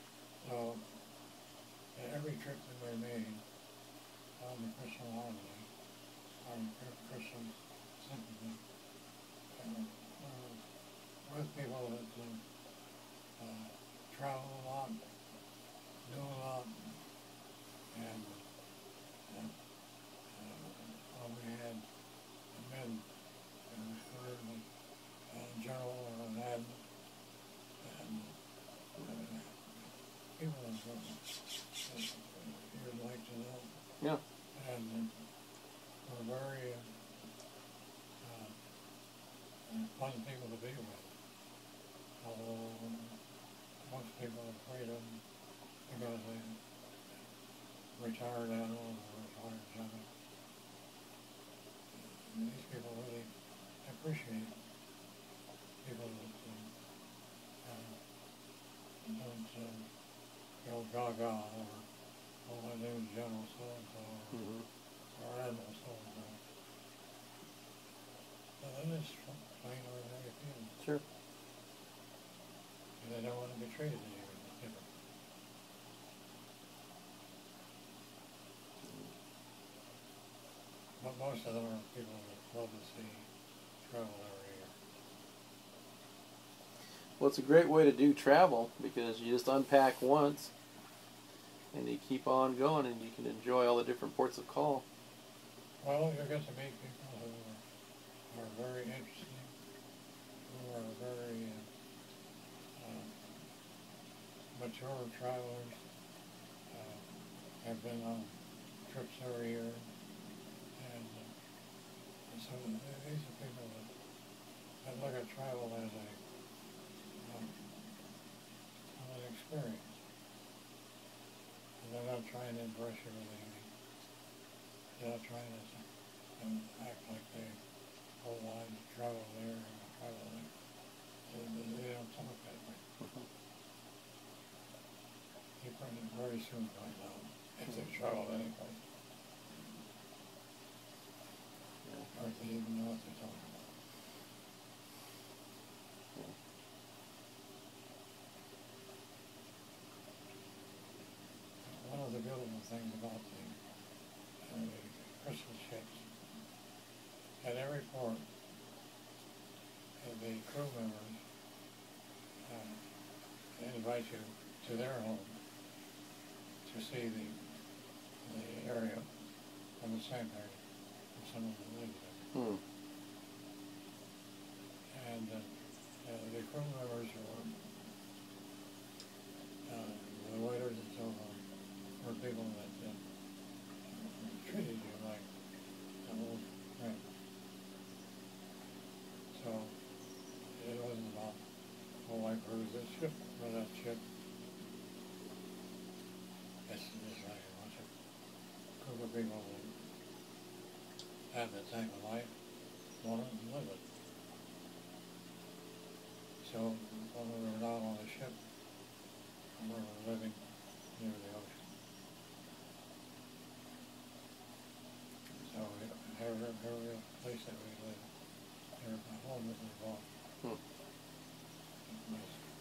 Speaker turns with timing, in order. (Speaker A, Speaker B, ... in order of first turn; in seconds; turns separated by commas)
Speaker A: 0.4-0.9, Speaker A: 1.9-3.4, Speaker A: 4.4-5.7, Speaker A: 6.4-8.6, Speaker A: 9.5-10.6, Speaker A: 11.2-12.4, Speaker A: 13.4-15.1, Speaker A: 16.1-17.0, Speaker A: 17.9-18.4, Speaker A: 19.3-19.5, Speaker A: 20.3-21.9, Speaker A: 22.5-23.1, Speaker A: 23.7-24.7, Speaker A: 25.3-26.9, Speaker A: 27.8-28.4, Speaker A: 29.0-31.2, Speaker A: 31.8-33.8, Speaker A: 34.5-35.1, Speaker A: 36.0-37.0, Speaker A: 38.2-38.6, Speaker A: 39.7-41.1, Speaker A: 42.2-43.2, Speaker A: 43.8-45.2, Speaker A: 45.9-46.6, Speaker A: 48.0-50.1, Speaker A: 51.9-53.3, Speaker A: 53.8-54.6, Speaker A: 55.8-56.7, Speaker A: 57.6-58.0, Speaker A: 59.0-59.9, Speaker A: 60.6-61.9, Speaker A: 62.5-64.4, Speaker B: 64.3-64.7, Speaker A: 65.1-66.4, Speaker A: 68.6-70.8, Speaker B: 70.8-71.0, Speaker A: 73.0-74.9, Speaker B: 78.8-79.1, Speaker A: 81.0-83.3, Speaker A: 83.8-84.8, Speaker B: 87.2-90.5, Speaker B: 91.7-94.8, Speaker A: 95.8-97.6, Speaker A: 98.3-99.6, Speaker A: 100.5-101.7, Speaker A: 102.8-103.2, Speaker A: 104.5-105.8, Speaker A: 106.7-109.9, Speaker A: 110.8-111.3, Speaker A: 112.3-113.9, Speaker A: 114.8-116.2, Speaker A: 117.2-117.8, Speaker A: 118.9-120.0, Speaker A: 121.8-123.7, Speaker A: 125.0-125.8, Speaker A: 126.4-127.6, Speaker A: 128.2-130.5, Speaker A: 131.3-132.8, Speaker B: 133.0-133.3, Speaker A: 135.6-138.8, Speaker A: 142.1-143.7, Speaker A: 151.6-153.6, Speaker A: 154.4-156.1, Speaker A: 157.4-158.3, Speaker A: 160.0-161.2, Speaker A: 162.5-162.8, Speaker A: 163.6-165.4, Speaker A: 166.6-167.5, Speaker A: 168.2-169.1, Speaker A: 169.8-170.6, Speaker A: 171.1-172.3, Speaker B: 172.3-172.6, Speaker A: 174.9-177.7, Speaker A: 179.7-181.4, Speaker A: 182.0-183.0, Speaker A: 183.9-185.3, Speaker A: 186.0-187.1, Speaker A: 189.3-189.8, Speaker A: 190.6-191.4, Speaker A: 192.0-194.0, Speaker A: 196.7-197.9, Speaker A: 198.8-199.8, Speaker A: 201.3-202.3, Speaker A: 203.0-203.8, Speaker A: 206.4-208.4, Speaker A: 209.6-211.8, Speaker A: 215.4-218.1, Speaker A: 218.8-220.1, Speaker A: 221.9-222.4